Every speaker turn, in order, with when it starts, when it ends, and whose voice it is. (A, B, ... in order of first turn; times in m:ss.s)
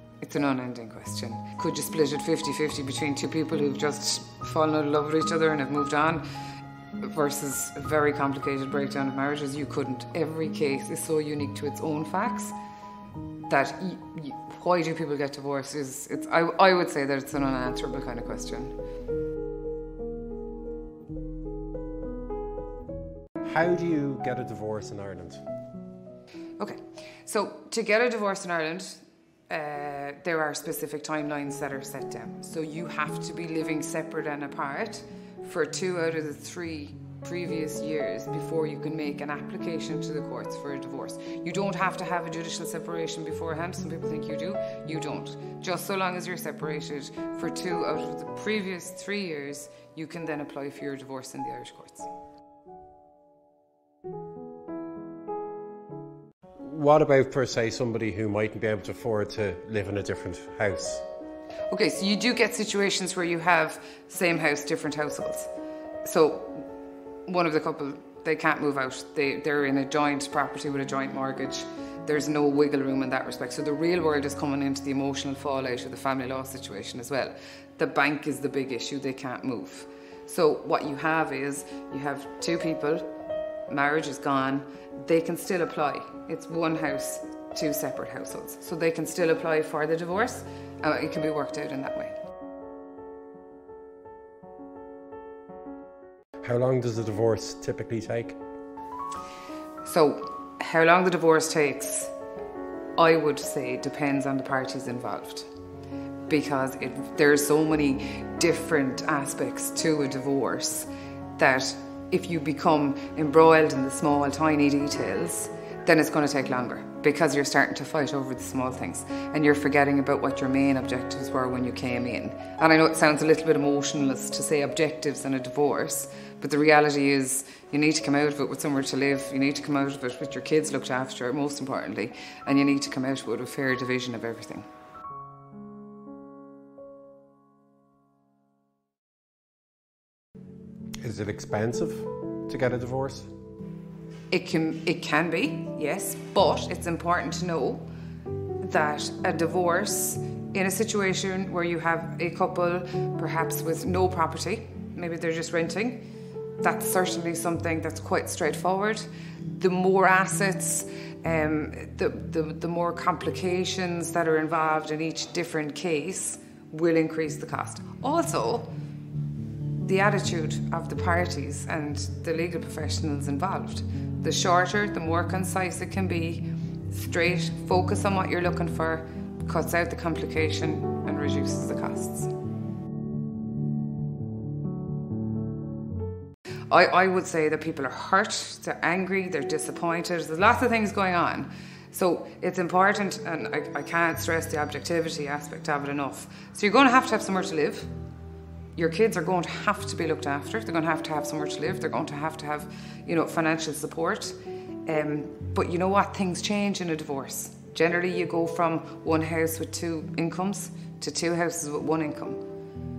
0:00.2-0:06.2 A
0:07.0-0:12.5 A
0:13.5-0:18.7 A
0:23.4-0:25.4 B
0:26.6-0:52.1 A
0:56.6-1:01.0 B
1:01.7-1:05.5 A
1:06.0-1:06.7 A
1:07.3-1:23.1 A
1:23.7-1:32.1 A
1:36.4-1:38.4 B
1:39.8-1:42.1 A
1:43.0-1:45.5 A
1:46.3-2:14.6 A
2:21.0-2:23.3 B
2:24.3-2:27.8 A
2:28.6-2:36.0 A
2:36.6-2:48.7 A
2:49.8-3:02.3 A
3:06.7-3:17.9 A
3:18.8-3:32.4 A